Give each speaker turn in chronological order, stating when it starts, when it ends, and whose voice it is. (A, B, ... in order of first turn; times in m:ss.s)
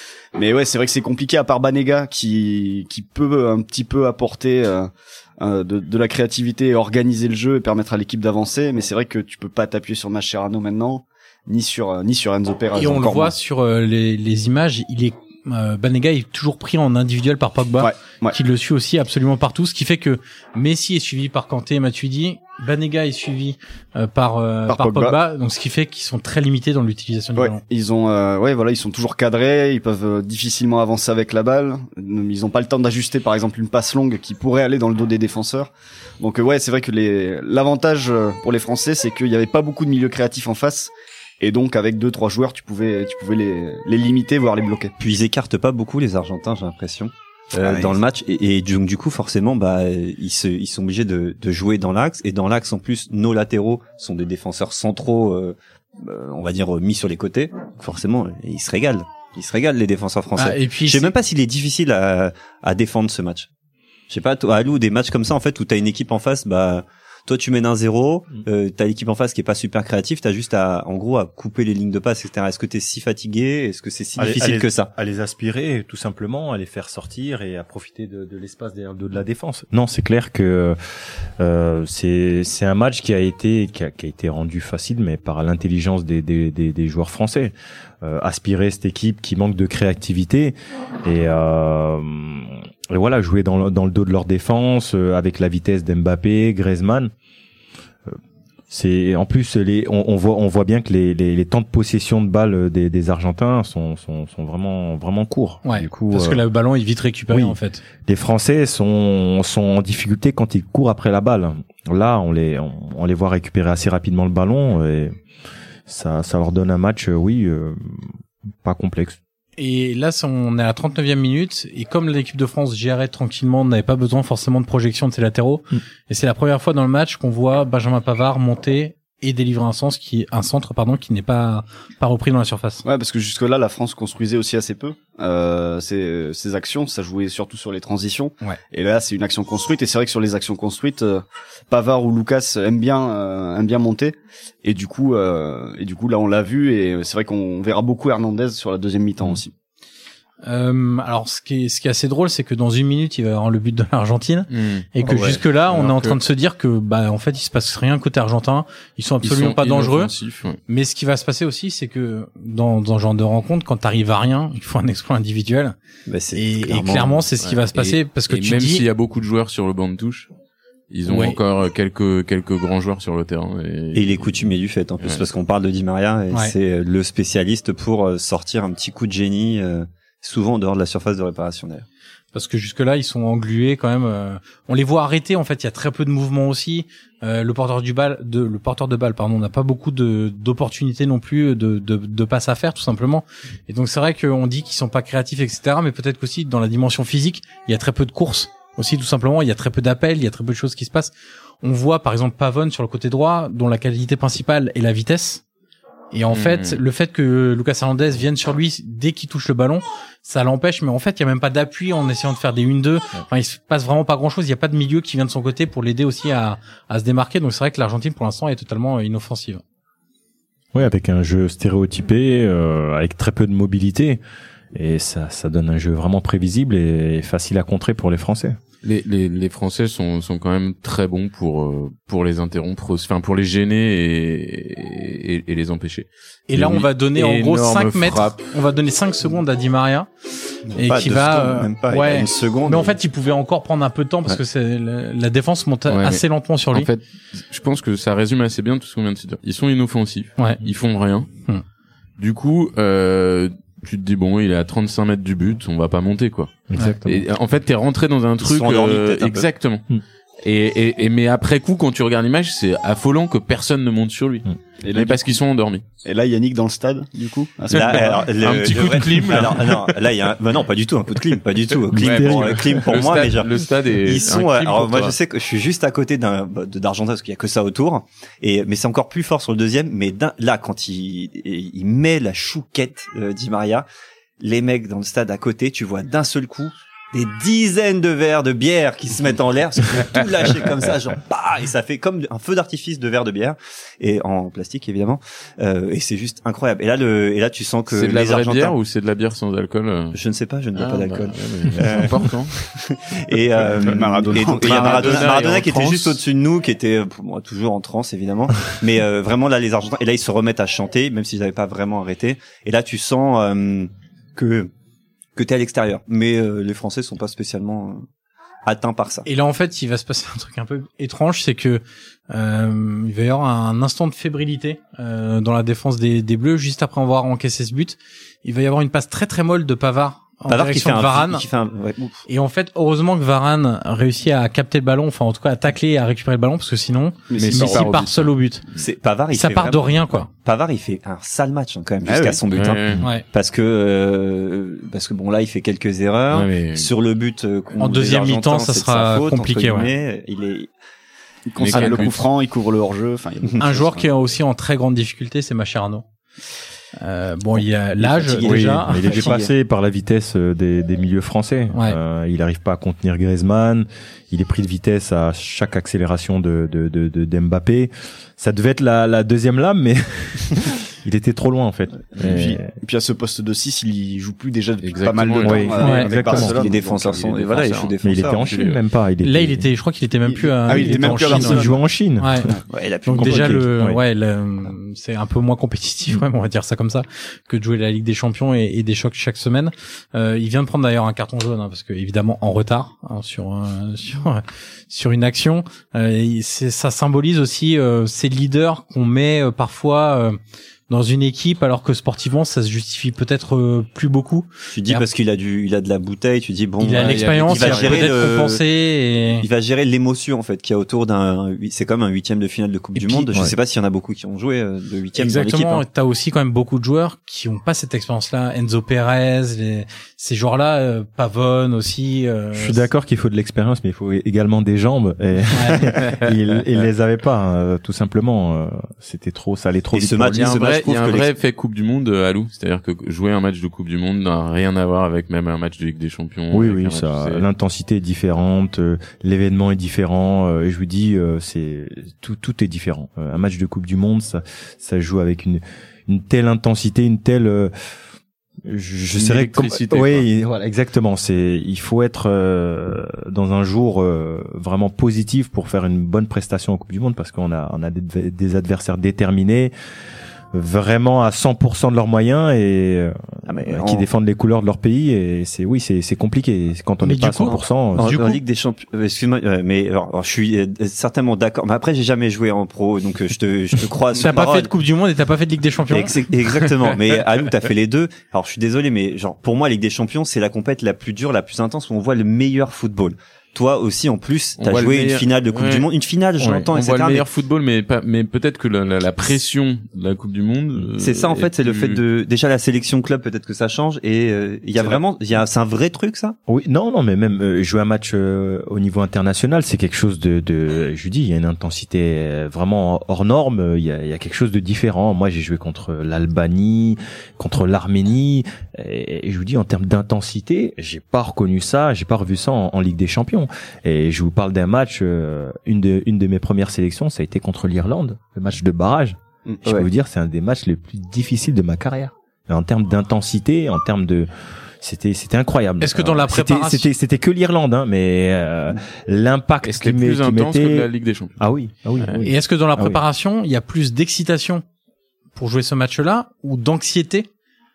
0:00.3-0:13.3 A
0:12.7-0:27.6 B
0:17.8-0:18.4 A
0:24.7-0:25.2 A
0:27.4-0:44.9 A
0:45.0-1:03.5 C
0:47.6-0:48.0 A
1:00.4-1:01.2 B
1:04.1-1:14.9 C
1:14.2-1:20.8 D
1:21.4-1:37.1 D
1:38.7-1:46.4 D
1:45.6-1:47.8 B
1:47.3-1:55.1 D
1:55.9-1:58.1 D
1:58.6-1:59.2 D
1:59.6-2:12.8 B
2:12.8-2:29.5 A
2:30.4-2:40.1 B
2:34.5-2:36.2 E
2:39.2-2:40.6 E
2:40.7-2:45.8 B
2:46.1-2:47.2 C
2:46.3-2:48.8 B
2:47.4-2:50.3 E
2:50.9-2:54.5 E
2:51.0-2:51.4 B
2:53.9-3:01.8 C
2:55.0-2:55.2 E
3:02.3-3:25.4 B
3:26.1-3:39.6 B
3:26.3-3:26.8 E
3:40.7-3:44.2 D
3:44.7-3:48.6 D
3:48.8-3:58.4 E
3:56.5-4:06.9 B
4:00.8-4:03.0 C
4:05.9-4:11.3 E
4:12.2-4:19.8 E
4:16.7-4:17.2 D
4:18.4-4:19.5 C
4:20.4-4:25.8 E
4:24.8-4:25.4 A
4:26.0-4:28.3 A
4:27.7-4:43.8 C
4:27.7-4:30.0 E
4:31.8-4:35.2 E
4:31.9-4:32.9 D
4:44.4-4:58.7 C
4:57.9-5:00.2 E
5:00.1-5:14.7 C
5:00.7-5:02.5 E
5:03.6-5:05.4 A
5:03.6-5:06.2 E
5:15.4-5:18.0 C
5:18.6-5:19.3 C
5:19.2-5:31.4 B
5:30.5-5:32.2 C
5:32.3-5:38.6 B
5:37.3-5:38.0 A
5:37.4-5:38.8 E
5:38.8-5:50.7 C
5:39.3-5:40.3 B
5:42.0-5:42.4 A
5:42.5-5:43.0 E
5:46.3-5:46.9 E
5:47.8-5:49.9 B
5:51.5-5:54.1 A
5:51.6-5:52.3 E
5:53.6-5:56.0 B
5:57.0-5:59.4 B
5:58.1-5:59.5 A
5:58.4-6:12.7 D
5:58.5-5:58.7 E
6:12.2-6:17.4 A
6:14.8-6:16.6 E
6:15.4-6:16.6 D
6:15.8-6:16.1 B
6:16.2-6:18.4 C
6:17.1-6:18.8 E
6:18.0-6:19.7 D
6:19.2-6:22.5 B
6:20.3-6:21.8 A
6:20.7-6:22.6 D
6:22.7-6:23.6 C
6:23.0-6:45.1 B
6:23.2-6:24.0 D
6:44.7-6:48.6 C
6:46.8-6:49.5 B
6:47.0-6:48.1 E
6:49.4-6:55.8 C
6:53.0-6:53.4 B
6:55.1-7:02.8 B
7:02.5-7:10.5 D
7:05.5-7:06.0 B
7:09.9-7:11.3 C
7:10.3-7:17.4 E
7:16.5-7:27.7 D
7:28.6-7:39.7 D
7:29.1-7:30.3 E
7:40.5-7:48.4 D
7:43.4-7:44.0 C
7:47.0-7:47.6 B
7:47.4-7:54.7 C
7:54.2-7:56.2 B
7:55.9-8:07.2 C
8:04.6-8:05.9 E
8:06.4-8:12.0 E
8:11.0-8:16.4 C
8:16.5-8:44.3 D
8:44.8-8:53.0 D
8:45.8-8:46.9 B
8:49.6-8:51.3 E
8:52.0-8:52.2 E
8:52.2-8:54.6 B
8:55.4-8:57.3 B